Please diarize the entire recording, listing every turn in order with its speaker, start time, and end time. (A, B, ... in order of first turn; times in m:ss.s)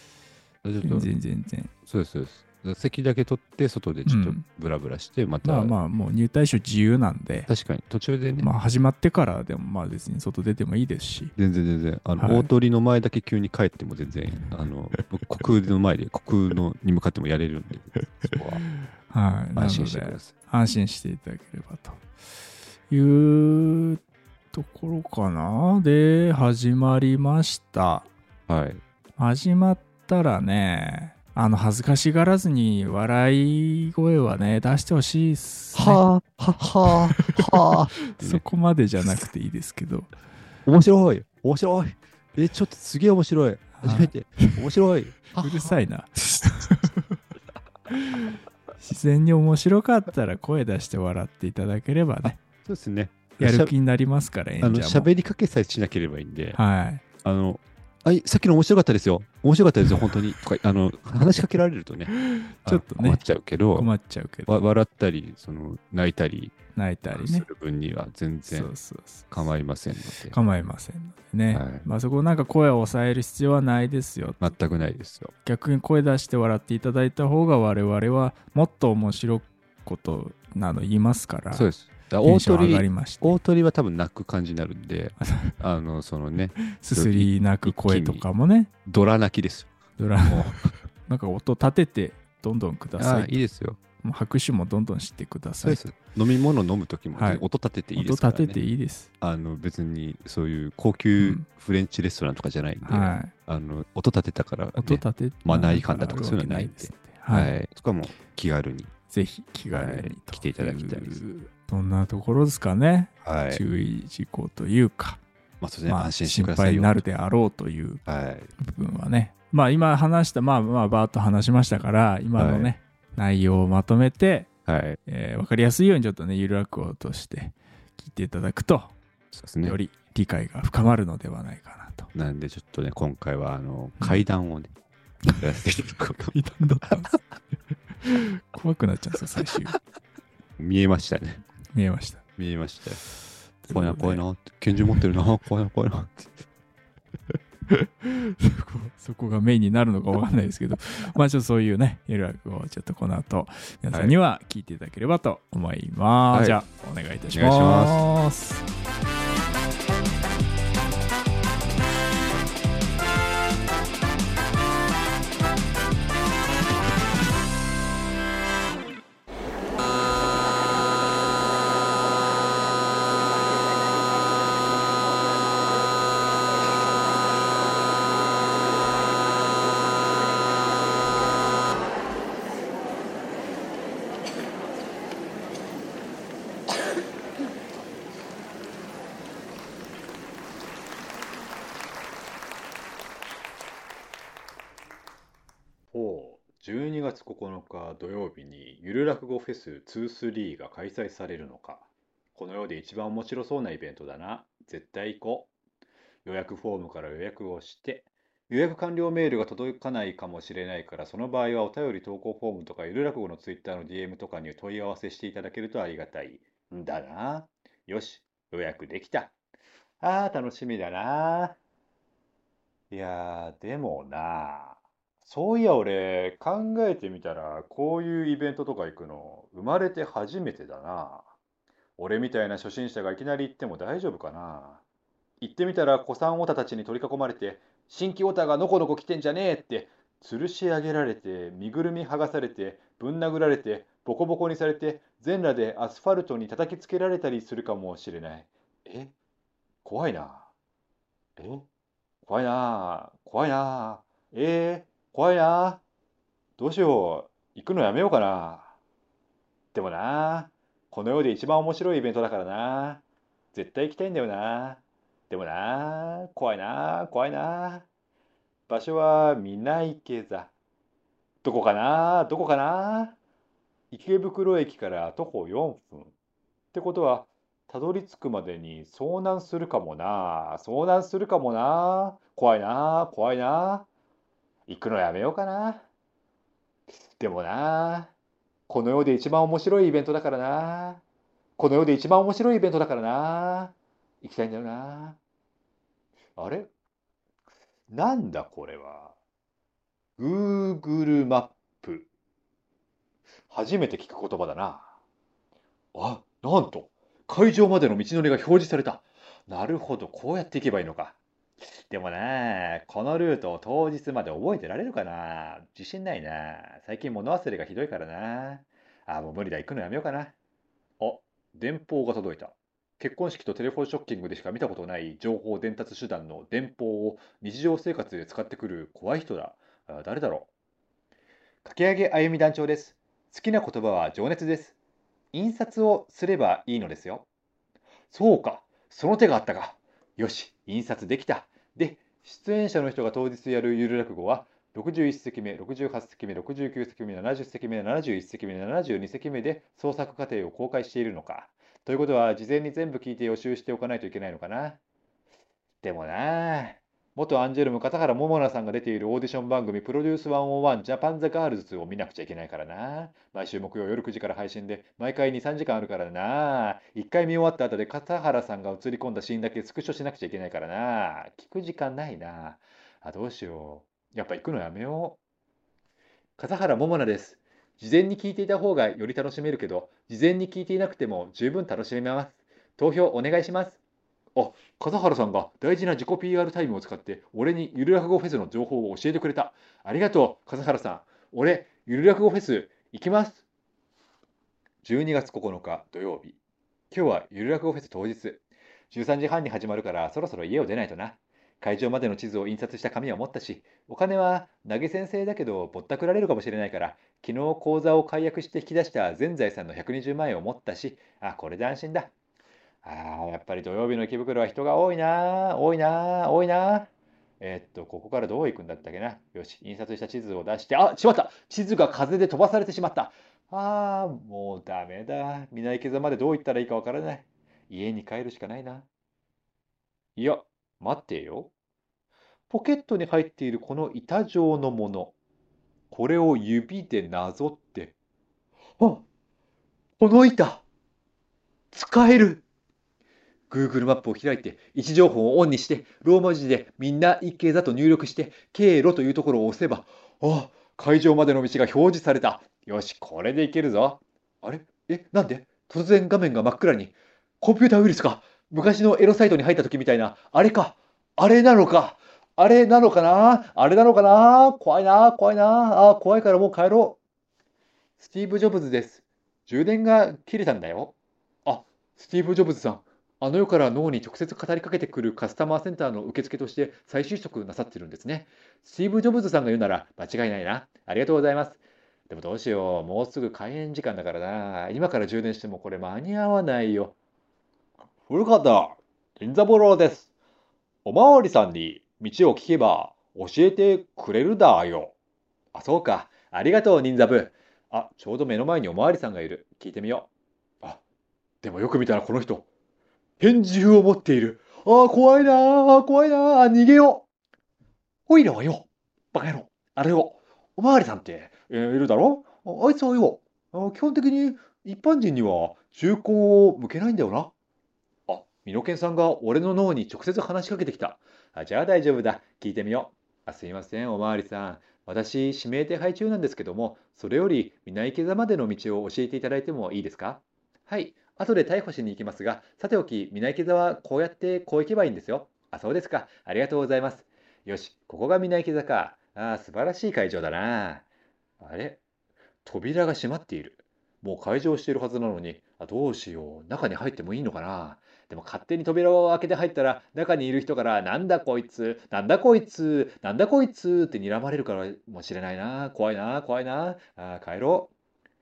0:00.6-0:01.1 A
0:00.8-0:01.7 B
0:01.8-0:05.8 A
0:04.0-0:04.4 B
0:05.4-0:07.5 B
0:07.5-0:08.5 A
0:08.4-0:11.3 B
0:11.4-0:18.6 A
0:12.2-0:12.5 B
0:18.8-0:22.0 B
0:19.6-0:20.3 A
0:22.9-0:28.1 B
0:28.5-0:28.8 A
0:29.2-0:36.0 B
0:35.7-0:38.4 A
0:36.9-0:40.1 B
0:40.6-0:45.8 A
0:43.8-0:44.6 B
0:45.3-0:47.2 B
0:47.9-0:52.4 B
0:52.2-0:53.7 A
0:53.4-0:55.1 B
0:54.6-0:56.6 A
0:56.5-0:57.0 B
0:57.2-1:02.1 A
1:02.3-1:03.2 B
1:02.6-1:03.9 A
1:03.7-1:04.5 B
1:04.4-1:06.6 A
1:06.7-1:07.4 B
1:07.1-1:08.7 A
1:08.5-1:09.3 B
1:09.3-1:10.4 A
1:10.3-1:14.4 B
1:11.5-1:11.8 A
1:14.4-1:15.3 A
1:15.4-1:21.7 B
1:21.5-1:28.2 A
1:22.2-1:23.4 B
1:25.2-1:25.6 B
1:26.7-1:28.7 B
1:28.8-1:29.7 A
1:30.0-1:33.4 B
1:30.3-1:30.7 A
1:33.0-1:33.8 A
1:34.0-1:35.8 B
1:35.6-1:38.6 A
1:37.1-1:37.4 B
1:37.9-1:39.1 B
1:39.2-1:48.9 A
1:41.2-1:41.4 B
1:42.8-1:43.3 B
1:44.8-1:47.5 B
1:49.1-1:55.2 B
1:49.7-1:51.2 A
1:53.2-1:53.6 A
1:55.6-1:57.0 A
1:55.9-1:58.0 B
1:58.0-1:58.5 A
1:58.6-2:04.5 B
2:02.4-2:02.7 A
2:04.6-2:05.0 A
2:05.0-2:08.9 B
2:09.3-2:09.8 A
2:09.6-2:12.1 B
2:12.1-2:14.7 A
2:15.4-2:16.3 A
2:16.3-2:17.2 B
2:18.0-2:19.8 B
2:20.6-2:21.4 A
2:21.7-2:22.2 B
2:22.4-2:23.0 A
2:23.6-2:24.2 B
2:23.7-2:26.4 A
2:27.7-2:38.6 B
2:36.3-2:36.6 A
2:37.3-2:38.0 A
3:15.9-3:25.5 C
3:26.2-3:39.3 C
3:40.0-3:41.6 C
3:42.9-3:51.3 C
3:52.0-3:54.8 C
3:55.4-4:09.1 C
4:09.8-4:10.5 C
4:11.4-4:11.6 C
4:12.2-4:15.8 C
4:16.6-4:18.7 C
4:19.7-4:27.8 C
4:28.7-4:30.5 C
4:31.4-4:33.2 C
4:33.9-4:36.1 C
4:36.7-4:43.9 C
4:44.7-4:45.8 C
4:47.2-4:48.1 C
4:48.7-4:51.0 C
4:51.6-4:55.2 C
4:56.4-4:56.7 C
4:57.9-4:59.1 C
5:00.2-5:02.1 C
5:03.5-5:04.9 C
5:05.9-5:20.3 C
5:21.0-5:30.5 C
5:31.6-5:34.7 C
5:35.3-5:37.3 C
5:38.1-5:54.8 C
5:55.8-6:15.2 C
6:16.4-6:23.8 C
6:24.3-6:33.4 C
6:34.8-6:36.4 C
6:36.9-6:52.1 C
6:52.8-7:08.8 C
7:10.2-7:11.5 C
7:12.5-7:15.1 C
7:15.9-7:17.9 C
7:20.0-7:20.6 C
7:21.7-7:22.4 C
7:23.5-7:47.0 C
7:48.0-8:06.9 C
8:08.0-8:10.1 C
8:10.8-8:14.9 C
8:15.5-8:20.1 C
8:21.4-8:22.5 C
8:23.2-8:27.0 C
8:28.1-8:37.3 C
8:38.1-9:00.8 C
9:01.4-9:01.8 C
9:02.4-9:17.7 C